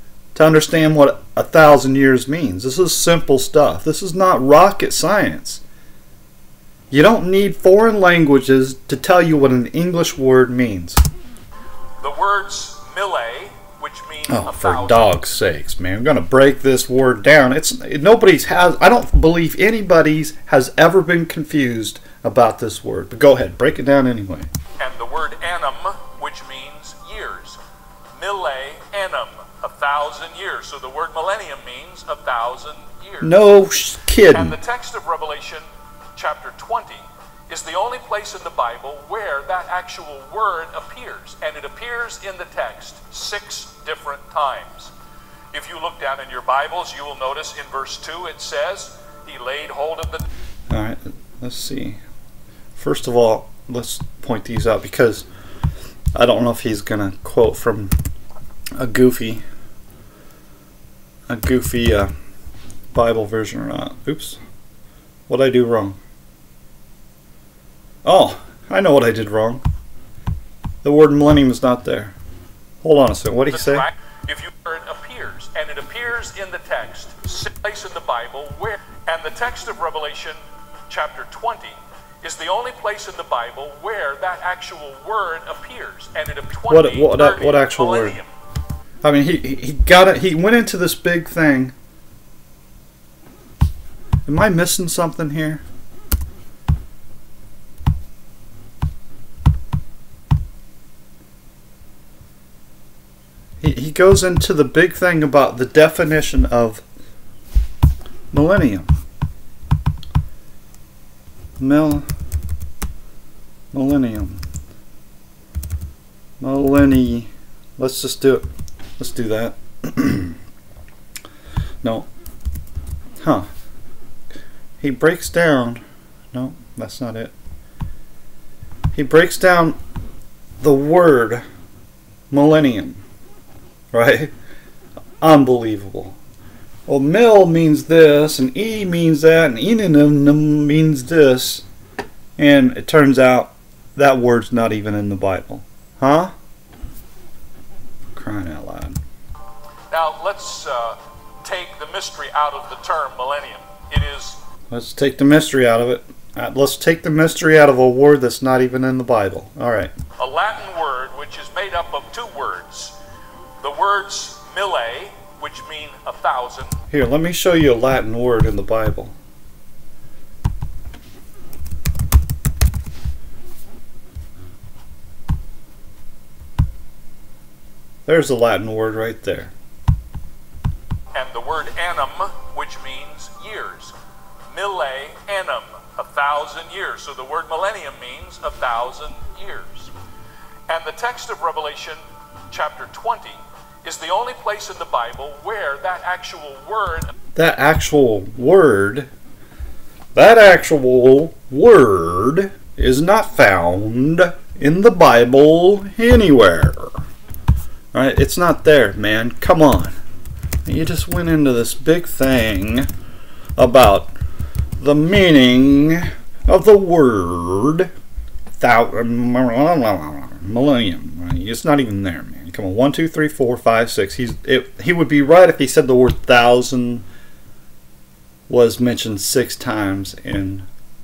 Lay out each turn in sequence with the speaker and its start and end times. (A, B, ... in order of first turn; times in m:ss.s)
0:00.4-0:05.6 A
0:06.9-0:11.0 A
0:12.0-0:15.1 B
0:14.3-0:24.5 A
0:24.8-0:27.6 B
0:28.2-0:33.3 B
0:33.2-0:34.6 A
0:34.3-0:44.9 B
0:45.5-0:50.3 B
0:50.7-0:52.0 A
0:52.8-0:55.3 A
0:56.2-0:57.9 A
0:58.8-0:59.4 A
1:01.3-1:02.1 A
1:02.9-1:04.4 A
1:05.3-1:06.0 A
1:08.0-1:09.6 A
1:10.8-1:12.1 A
1:12.8-1:13.9 A
1:13.5-1:28.3 B
1:26.7-1:28.2 A
1:29.0-1:31.7 A
1:34.3-1:35.6 A
1:43.6-1:46.8 A
1:48.3-1:48.9 A
1:51.6-1:52.1 A
1:53.7-1:54.4 A
1:56.4-1:58.5 A
1:59.0-2:00.4 A
2:01.8-2:02.1 A
2:03.2-2:03.5 A
2:04.8-2:07.3 A
2:08.9-2:09.8 A
2:10.6-2:11.4 A
2:12.3-2:13.0 A
2:13.9-2:14.3 A
2:15.2-2:16.2 A
2:16.9-2:21.7 A
2:22.4-2:26.3 A
2:28.1-2:29.0 A
2:29.9-2:34.4 B
2:34.7-2:40.0 A
2:40.2-2:43.0 B
2:43.6-2:46.8 B
2:46.9-2:49.2 A
2:58.1-2:59.5 A
3:01.1-3:04.0 B
3:04.5-3:09.9 B
3:10.7-3:17.1 B
3:17.4-3:19.1 A
3:20.2-3:27.0 A
3:27.9-3:30.0 A
3:30.6-3:32.9 A
3:33.6-3:34.1 A
3:34.8-3:37.9 A
3:38.6-3:47.1 A
3:48.5-3:50.7 A